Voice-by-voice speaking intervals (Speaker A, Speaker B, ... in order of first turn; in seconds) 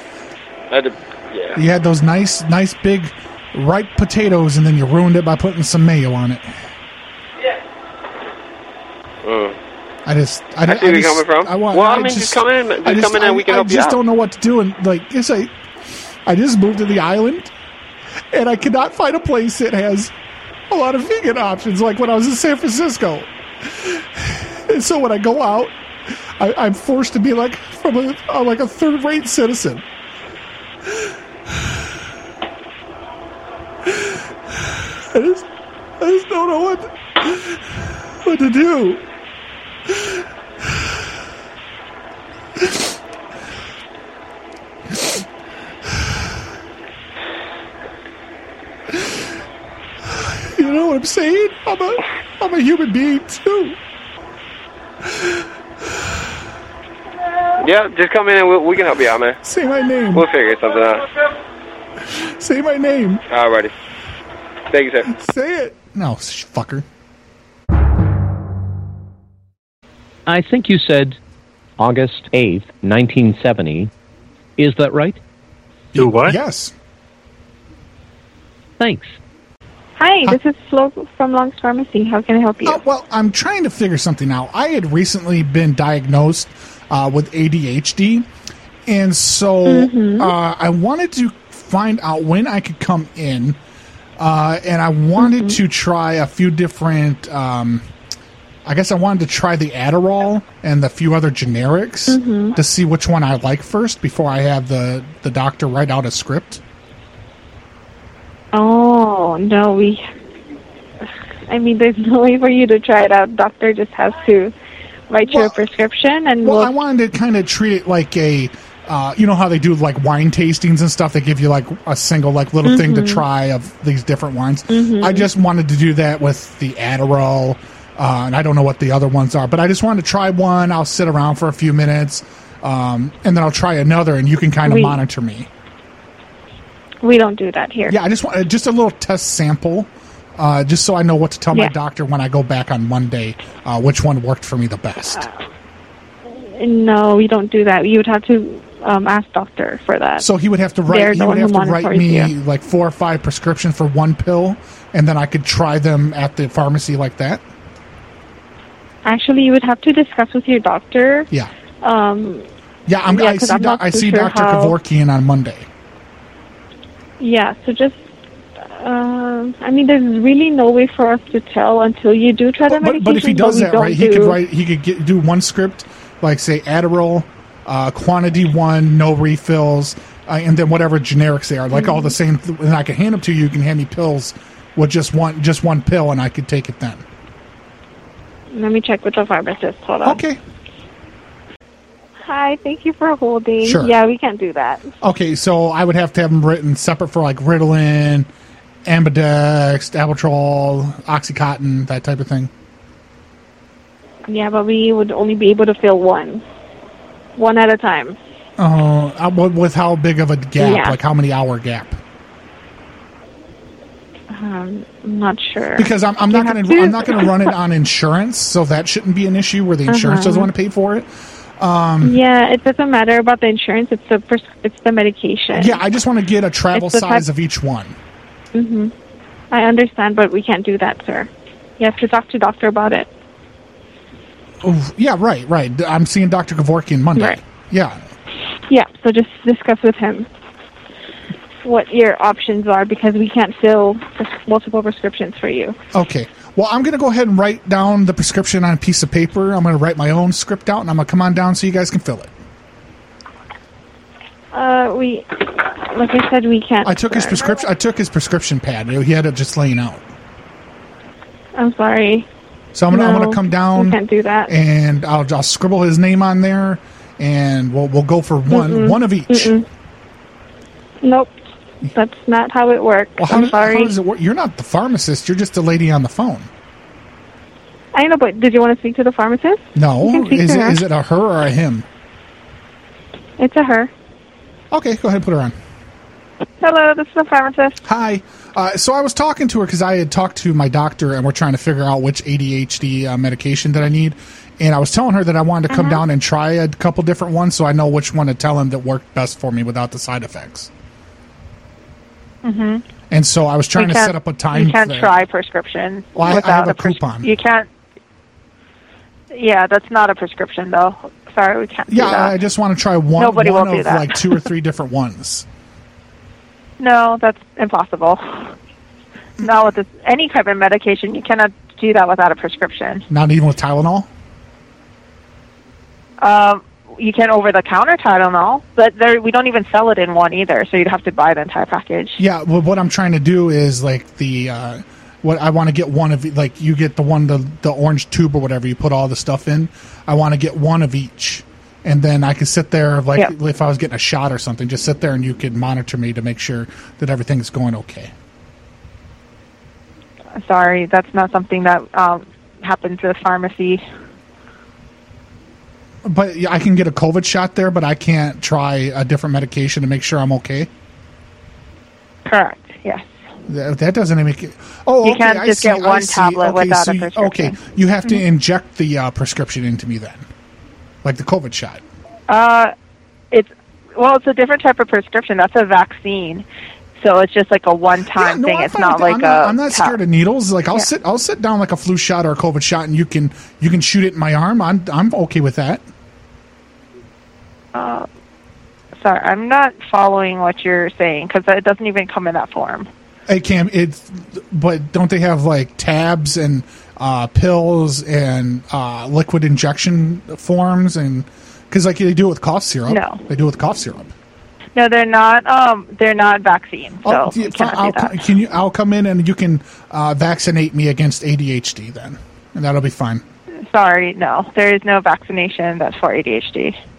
Speaker A: 0.7-1.6, 9.2-9.6, 10.7-14.0, 57.6-59.4, 60.1-61.0, 63.3-63.7, 64.7-65.1
Speaker B: 1.6-6.5, 10.1-15.5, 16.3-17.5, 18.3-20.1, 20.7-25.8, 26.4-29.9, 30.9-31.8, 33.8-35.5, 36.0-39.0, 39.9-40.9, 42.6-42.9, 44.9-45.2, 48.9-49.2, 50.1-53.8, 55.0-55.4, 59.4-60.3, 62.1-63.2, 65.1-66.8, 75.9-76.7, 82.6-88.3, 88.9-93.6, 94.2-97.9, 98.7-106.6, 116.4-135.5, 137.9-145.3, 150.2-157.4, 162.9-165.7, 172.7-187.1, 190.0-190.4, 193.6-193.9, 195.0-198.3, 198.8-202.5, 208.6-212.0, 215.8-222.2, 225.5-228.0, 234.6-238.1, 245.9-252.3, 256.8-260.0, 262.7-269.6, 273.2-276.5, 279.8-281.9, 284.7-285.6, 287.9-300.7, 303.1-305.1, 306.1-307.3, 311.9-315.5, 323.1-324.1, 332.2-348.1, 356.1-360.7, 363.5-370.3, 371.0-371.8, 378.2-385.9, 393.3-404.1, 407.0-413.2
Speaker C: 70.3-71.2, 71.8-73.9, 74.6-75.2, 78.8-79.2
Speaker D: 80.0-82.8, 89.7-90.3, 95.2-95.6, 102.1-102.6, 108.5-110.0, 111.5-114.5, 115.1-116.7, 122.6-123.2, 124.7-125.3, 134.7-135.0, 137.0-138.0, 146.6-150.2, 150.9-152.3, 159.1-161.3, 161.8-162.5, 163.1-164.8, 167.2-168.0, 168.7-174.4, 181.7-182.2, 188.5-190.2, 192.2-194.9, 204.3-206.4, 207.4-208.2, 210.6-211.0, 214.3-217.6, 219.9-220.5, 222.0-225.8, 226.7-227.2, 228.5-228.9, 229.5-233.1, 237.2-237.4, 238.7-240.3, 241.6-245.8, 254.5-257.7, 261.6-262.3, 262.9-264.5, 268.5-269.7, 271.0-273.9, 277.9-280.8, 283.4-283.9, 295.7-296.0
Speaker E: 286.6-287.8, 302.4-302.8, 303.8-307.7, 309.3-312.3, 313.2-314.2, 316.8-318.5, 319.4-323.1, 326.2-332.2, 350.4-353.8, 362.3-363.2, 365.0-368.2, 372.3-372.7, 373.3-376.5, 377.0-380.0, 387.8-388.1, 389.0-392.9, 402.9-403.2, 404.8-408.1, 413.7-416.8